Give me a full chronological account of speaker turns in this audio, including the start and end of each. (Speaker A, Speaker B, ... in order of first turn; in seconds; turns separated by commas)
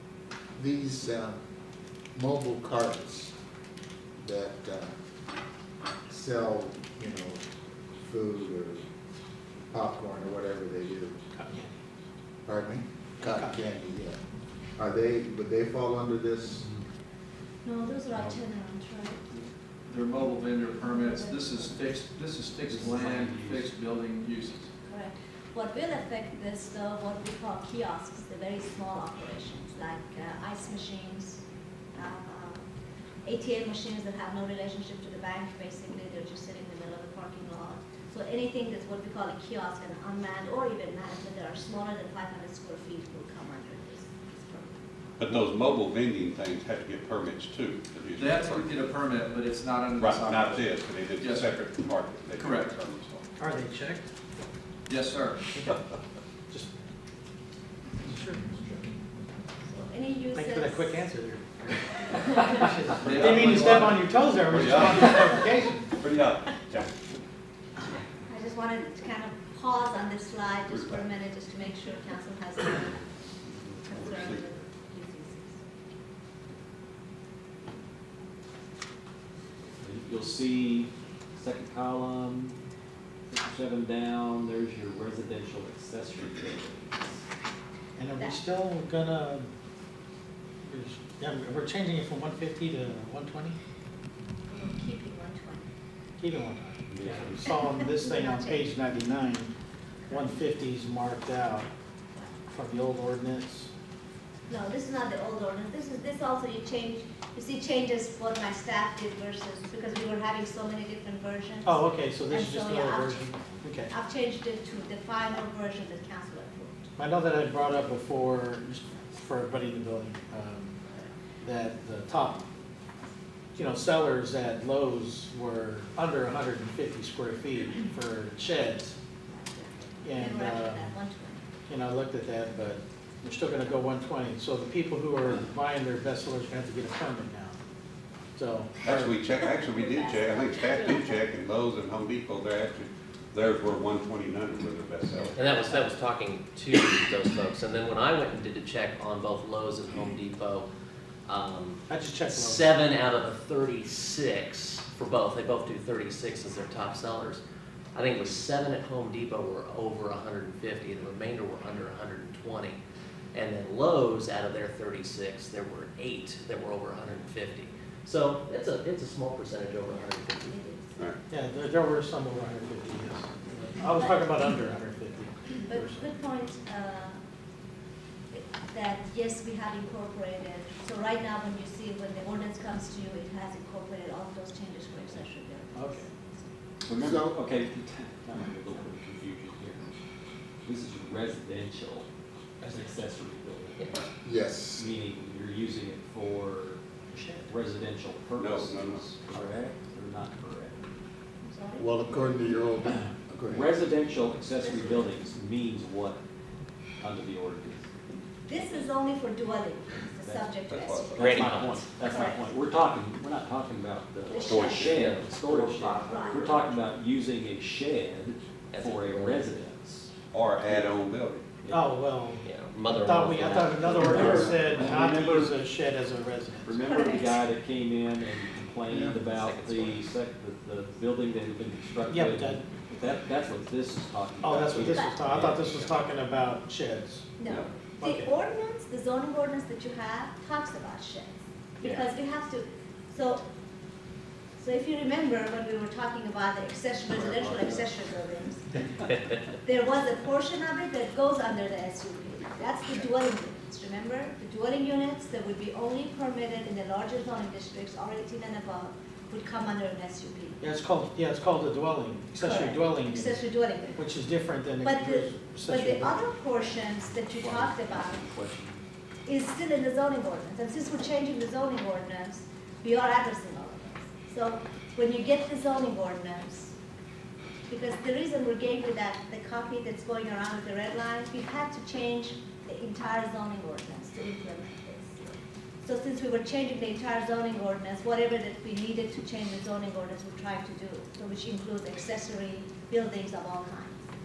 Speaker A: 0.6-1.4, Speaker A: 2.1-3.3, Speaker A: 4.2-4.9, Speaker A: 6.1-7.4, Speaker A: 8.0-8.8, Speaker A: 9.7-11.2, Speaker B: 11.4-11.8, Speaker A: 12.4-14.2, Speaker B: 13.2-13.6, Speaker A: 14.8-16.7, Speaker C: 17.6-19.3, Speaker D: 19.9-24.7, Speaker C: 20.8-21.9, Speaker E: 22.7-23.6, Speaker C: 24.9-31.4, Speaker C: 31.9-32.7, Speaker C: 33.2-44.9, Speaker F: 45.2-48.6, Speaker D: 48.1-51.6, Speaker F: 50.0-53.1, Speaker D: 52.4-53.2, Speaker B: 53.4-54.1, Speaker D: 54.9-55.4, Speaker B: 55.5-55.8, Speaker B: 58.0-58.7, Speaker C: 59.6-61.1, Speaker B: 60.3-66.0, Speaker C: 62.3-62.7, Speaker F: 63.0-63.4, Speaker D: 63.0-64.7, Speaker F: 64.5-65.4, Speaker F: 66.0-66.9, Speaker C: 68.3-73.0, Speaker F: 70.7-71.1, Speaker C: 73.8-75.6, Speaker F: 73.9-74.4, Speaker E: 79.8-82.6, Speaker E: 83.3-87.2, Speaker B: 88.0-89.5, Speaker B: 90.6-93.6, Speaker C: 94.5-95.7, Speaker B: 96.2-99.5, Speaker E: 96.9-97.3, Speaker C: 97.8-98.7, Speaker B: 100.1-101.7, Speaker B: 102.5-103.7, Speaker C: 104.5-116.9, Speaker B: 111.6-113.9, Speaker B: 117.0-120.8, Speaker C: 120.8-121.1, Speaker B: 121.4-122.5, Speaker B: 123.5-129.0, Speaker C: 129.3-131.5, Speaker B: 130.0-131.0, Speaker B: 131.7-137.6, Speaker B: 138.3-139.2, Speaker F: 138.8-145.5, Speaker C: 139.7-141.2, Speaker G: 145.3-150.7, Speaker G: 151.3-157.4, Speaker B: 151.9-152.7, Speaker G: 157.9-162.8, Speaker G: 163.3-170.6, Speaker C: 170.5-170.9, Speaker B: 171.3-176.1, Speaker C: 174.0-174.3, Speaker C: 175.6-177.2, Speaker C: 178.3-186.5, Speaker B: 185.7-186.0, Speaker A: 186.9-187.3, Speaker E: 186.9-189.8, Speaker E: 190.7-192.1, Speaker E: 192.7-193.9, Speaker A: 194.2-194.9, Speaker E: 194.8-196.8, Speaker B: 197.1-197.5, Speaker E: 197.5-200.9, Speaker F: 198.4-199.5, Speaker C: 201.4-201.9, Speaker A: 201.8-203.7, Speaker E: 203.5-206.2, Speaker C: 204.5-205.2, Speaker E: 207.0-207.8, Speaker C: 208.5-212.5, Speaker E: 210.2-210.5, Speaker F: 210.7-211.3, Speaker E: 211.1-220.1, Speaker G: 211.2-211.8, Speaker C: 214.3-215.0, Speaker G: 214.5-216.5, Speaker F: 214.5-214.9, Speaker C: 216.1-216.5, Speaker G: 218.7-219.6, Speaker F: 220.3-221.5, Speaker B: 221.7-226.8, Speaker G: 222.4-224.9, Speaker E: 224.8-225.5, Speaker E: 226.7-235.7, Speaker C: 226.9-227.4, Speaker A: 228.9-229.2, Speaker G: 229.3-230.0, Speaker B: 232.1-232.7, Speaker B: 234.4-237.3, Speaker C: 234.8-235.2, Speaker C: 237.4-243.4, Speaker B: 238.0-238.3, Speaker C: 244.6-248.7, Speaker C: 249.6-260.6, Speaker B: 260.6-266.3, Speaker C: 262.4-264.1, Speaker C: 264.8-268.3, Speaker E: 267.5-268.8, Speaker C: 269.3-276.8, Speaker C: 277.7-294.1